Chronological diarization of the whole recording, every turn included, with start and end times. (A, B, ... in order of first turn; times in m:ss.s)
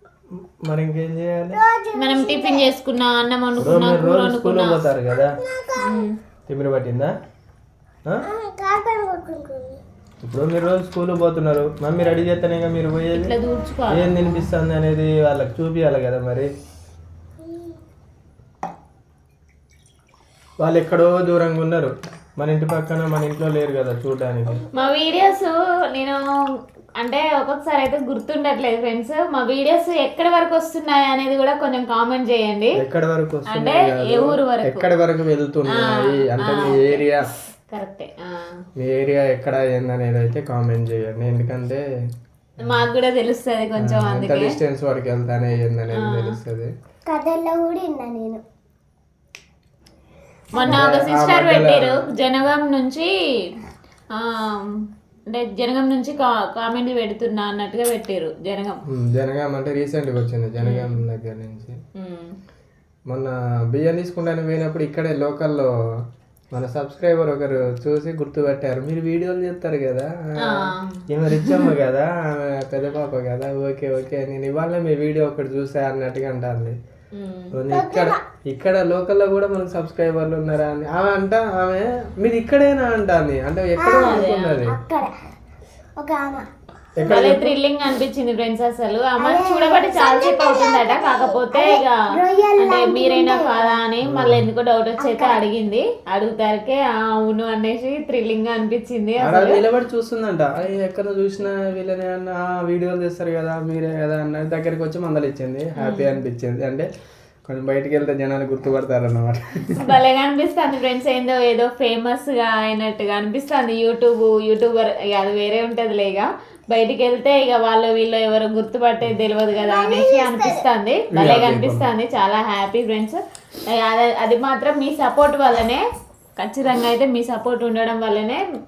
0:00.6-0:01.6 A
0:01.5-0:02.7 B
0:02.0-0:04.8 C
0:03.6-0:05.4 A
0:05.4-0:06.0 B
0:05.8-0:06.1 C
0:06.5-0:07.1 A
0:08.2-0:09.8 B
0:10.2-0:13.3 A
0:13.1-0:14.4 C
0:13.9-0:16.5 A
0:20.6-0:24.6 A
0:24.7-0:26.2 C
0:27.0-0:32.8 C
0:32.8-0:37.2 A
0:33.5-0:34.9 C
0:35.7-0:37.1 C
0:37.7-0:38.6 C
0:38.8-0:41.8 A
0:42.6-0:44.5 C
0:43.8-0:46.7 A
0:45.9-0:46.4 C
0:47.1-0:48.4 B
0:50.5-0:50.8 B
0:50.5-0:53.1 C
0:50.6-0:52.1 A
0:54.1-0:54.7 C
0:55.3-0:58.8 C
0:58.9-1:01.8 A
1:00.6-1:01.0 C
1:02.0-1:02.3 C
1:03.1-1:05.7 A
1:06.5-1:16.8 A
1:10.4-1:11.7 C
1:17.1-1:17.5 C
1:17.5-1:24.8 A
1:17.7-1:18.2 B
1:23.8-1:25.1 B
1:23.9-1:24.6 C
1:26.0-1:26.4 B
1:27.0-1:27.5 A
1:27.0-1:32.0 C
1:29.2-1:33.8 B
1:32.6-1:39.6 C
1:34.0-1:34.4 A
1:35.0-1:35.4 B
1:39.2-1:46.9 A
1:45.8-1:46.2 C
1:47.4-1:49.7 A
1:49.8-2:05.8 C
1:59.5-2:00.6 B
2:01.1-2:01.9 A
2:06.4-2:08.4 C